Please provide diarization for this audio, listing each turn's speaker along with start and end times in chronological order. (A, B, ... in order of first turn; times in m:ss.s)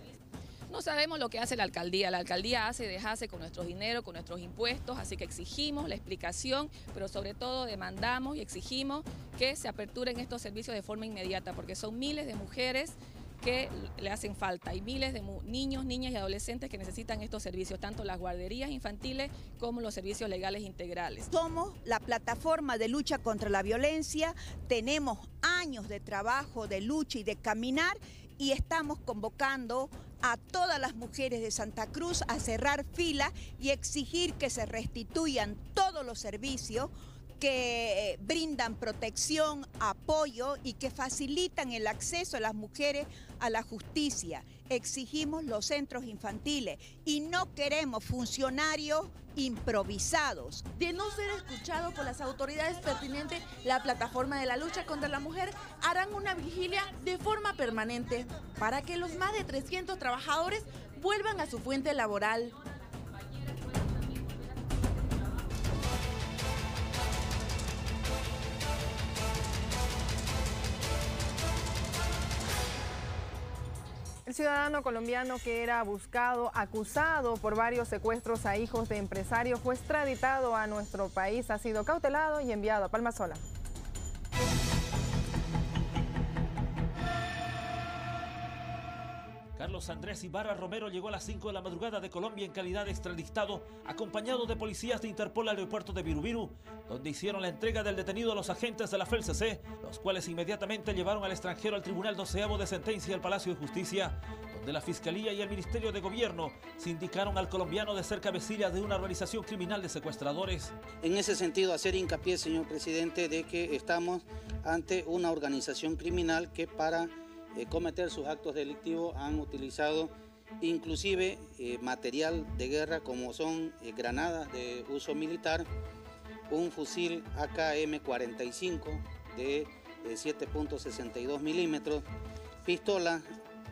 0:00.7-0:21.3 A
0:21.3-0:50.7 B
0:50.8-1:02.5 C
1:14.3-1:23.4 D
1:29.6-1:50.7 E
1:51.0-2:05.7 F
2:06.5-2:12.0 F
2:12.6-2:13.2 F